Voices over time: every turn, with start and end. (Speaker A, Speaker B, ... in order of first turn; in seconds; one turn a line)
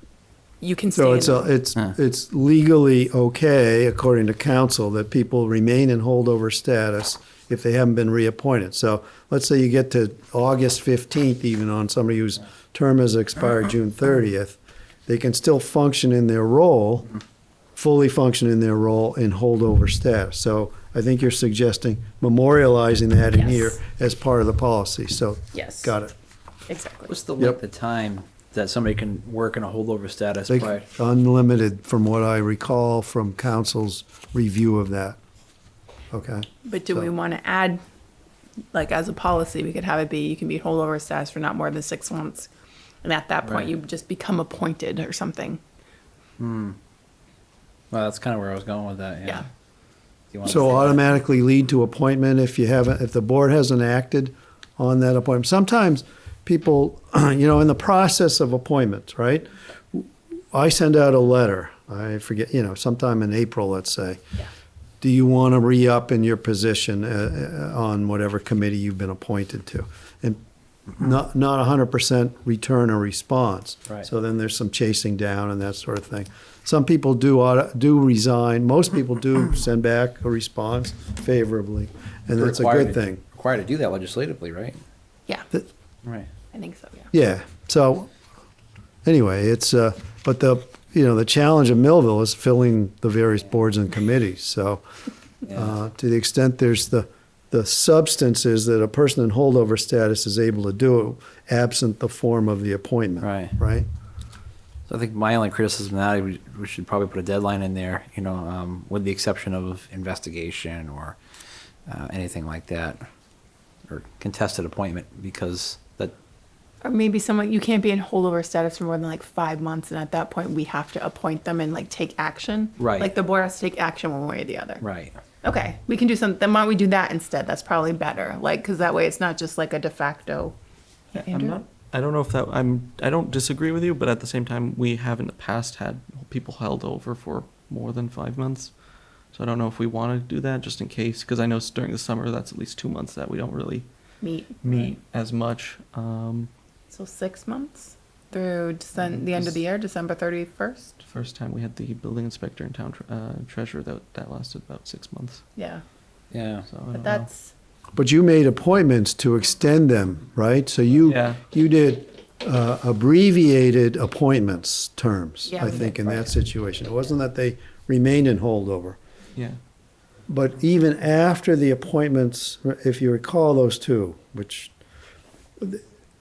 Speaker A: 0.6-1.5
Speaker B: 0.9-17.1
Speaker B: 17.8-26.1
Speaker A: 23.3-23.8
Speaker A: 25.5-25.9
Speaker A: 26.7-27.1
Speaker C: 27.1-30.9
Speaker B: 30.5-35.2
Speaker B: 36.1-37.1
Speaker A: 36.6-37.8
Speaker A: 38.7-42.5
Speaker A: 43.0-45.6
Speaker C: 46.4-46.8
Speaker C: 47.9-49.5
Speaker C: 50.3-51.0
Speaker B: 50.4-64.2
Speaker B: 65.0-70.4
Speaker B: 71.0-83.2
Speaker C: 82.4-84.8
Speaker C: 86.0-86.3
Speaker A: 86.5-87.1
Speaker B: 87.1-88.1
Speaker B: 89.0-94.8
Speaker B: 95.5-103.9
Speaker C: 103.2-103.5
Speaker C: 104.9-111.2
Speaker C: 111.9-113.0
Speaker C: 113.9-116.1
Speaker A: 116.8-124.8
Speaker C: 122.8-123.1
Speaker C: 124.8-125.2
Speaker A: 125.4-130.6
Speaker A: 131.1-131.6
Speaker D: 131.1-138.7
Speaker D: 139.3-143.9
Speaker A: 144.2-144.9
Speaker D: 144.6-146.5
Speaker A: 146.9-151.0
Speaker D: 149.0-149.6
Speaker D: 151.0-155.4
Speaker A: 155.6-155.8
Speaker C: 156.3-156.7
Speaker D: 156.7-157.3
Speaker A: 156.9-157.5
Speaker B: 158.0-169.0
Speaker D: 161.0-161.4
Speaker A: 165.5-166.0
Speaker B: 170.3-174.7